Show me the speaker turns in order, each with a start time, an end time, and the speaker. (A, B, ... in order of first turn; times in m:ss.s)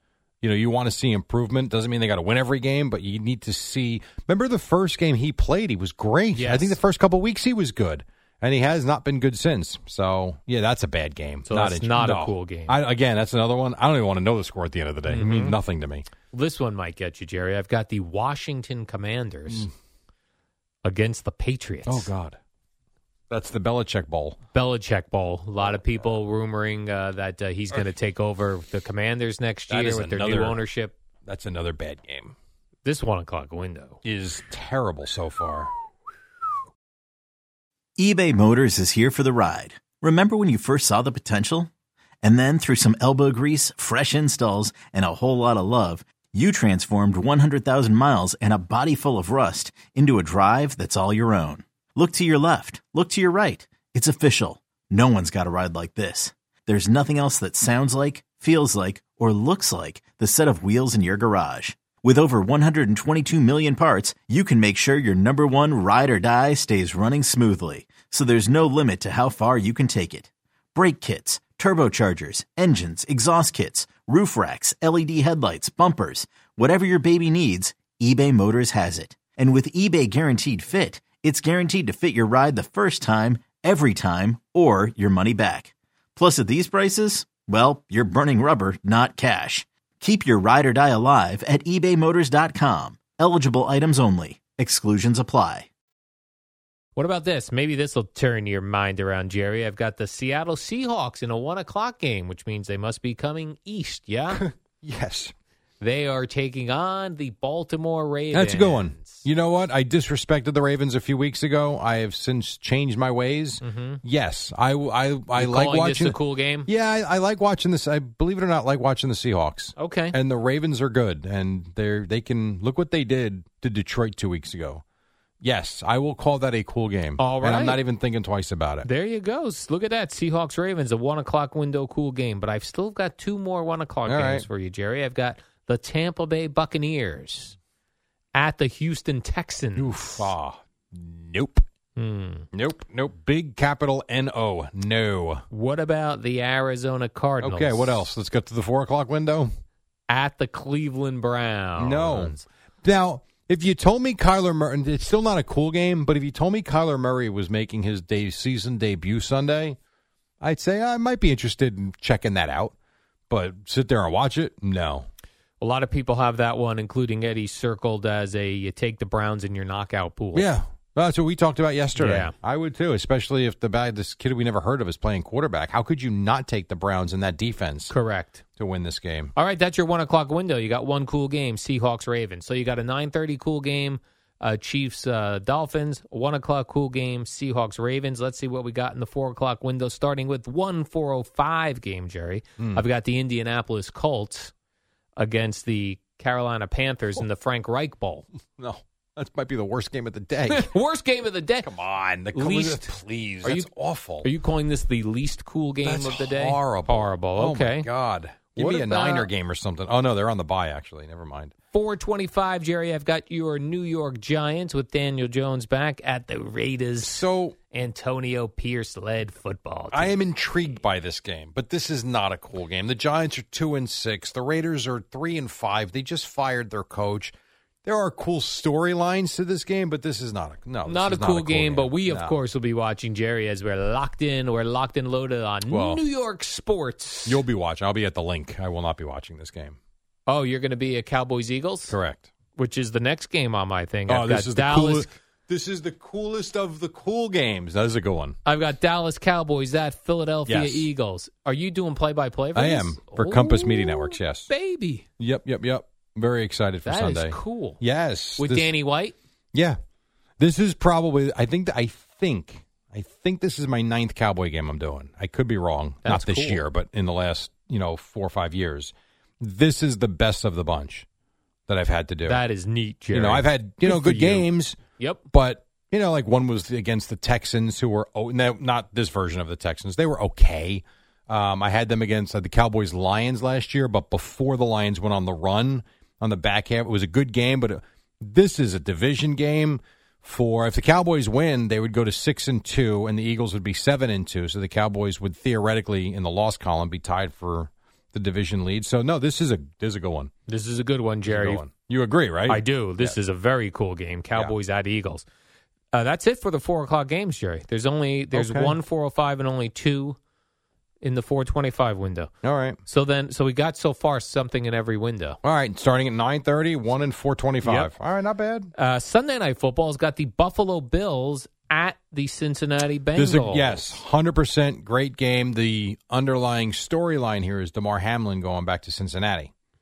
0:00.4-0:16.1 A
0:06.4-0:06.8 B
0:11.5-0:12.8 B
0:15.1-0:15.6 B
0:16.3-0:19.7 B
0:20.8-0:22.1 B
0:21.9-0:22.4 A
0:23.3-0:24.4 A
0:24.5-0:31.0 B
0:25.7-0:26.1 A
0:29.7-0:30.6 A
0:31.2-0:32.4 A
0:32.8-0:34.0 B
0:34.0-0:35.7 A
0:38.0-0:41.7 C
0:42.2-1:35.7 C
1:37.0-1:44.4 B
1:44.3-1:45.3 A
1:45.8-1:49.2 B
1:48.3-2:04.8 A
1:53.6-1:54.0 B
1:55.3-1:56.7 B
1:59.8-2:00.2 B
2:05.4-2:08.9 A
2:07.2-2:07.8 B
2:08.8-2:17.6 B
2:14.1-2:14.5 A
2:18.3-2:20.3 B
2:19.8-2:21.6 A
2:22.0-2:22.5 B
2:22.5-2:25.4 A
2:25.5-2:28.0 B
2:27.4-2:29.5 A
2:30.1-2:32.5 B
2:31.8-2:39.8 A
2:40.4-2:42.7 A
2:43.3-2:45.1 A
2:45.6-2:50.5 B
2:50.3-2:57.9 A
2:52.0-2:52.3 B
2:57.9-2:58.4 B
2:58.6-2:59.3 A
2:59.4-3:14.5 B
3:12.6-3:12.8 A
3:15.2-3:18.3 B
3:18.6-3:20.7 A
3:20.5-3:21.7 B
3:21.6-3:24.3 A
3:22.3-3:27.9 B
3:25.8-3:31.5 A
3:28.6-3:29.3 B
3:31.7-3:40.2 B
3:37.0-3:37.6 A
3:39.9-3:47.3 A
3:47.8-3:52.4 A
3:50.8-3:57.4 B
3:55.7-3:56.0 A
3:57.3-3:59.8 A
4:00.3-4:02.0 B
4:01.9-4:02.3 A
4:02.6-4:05.1 B
4:04.1-4:08.4 A
4:08.4-4:15.0 B
4:10.5-4:10.9 A
4:12.6-4:14.5 A
4:15.2-4:18.7 A
4:16.9-4:17.8 B
4:18.4-4:19.2 B
4:20.4-4:31.1 A
4:26.0-4:26.6 B
4:31.7-4:32.4 A
4:32.3-4:35.2 B
4:33.1-4:34.8 A
4:35.3-5:00.3 A
5:00.5-5:01.6 B
5:01.2-5:03.2 A
5:02.5-5:05.2 B
5:05.9-5:10.2 B
5:08.3-5:08.8 A
5:11.0-5:12.3 B
5:12.4-5:12.8 A
5:12.8-5:15.4 B
5:15.4-5:18.7 A
5:17.6-5:17.9 B
5:18.8-5:23.9 B
5:23.2-5:29.5 A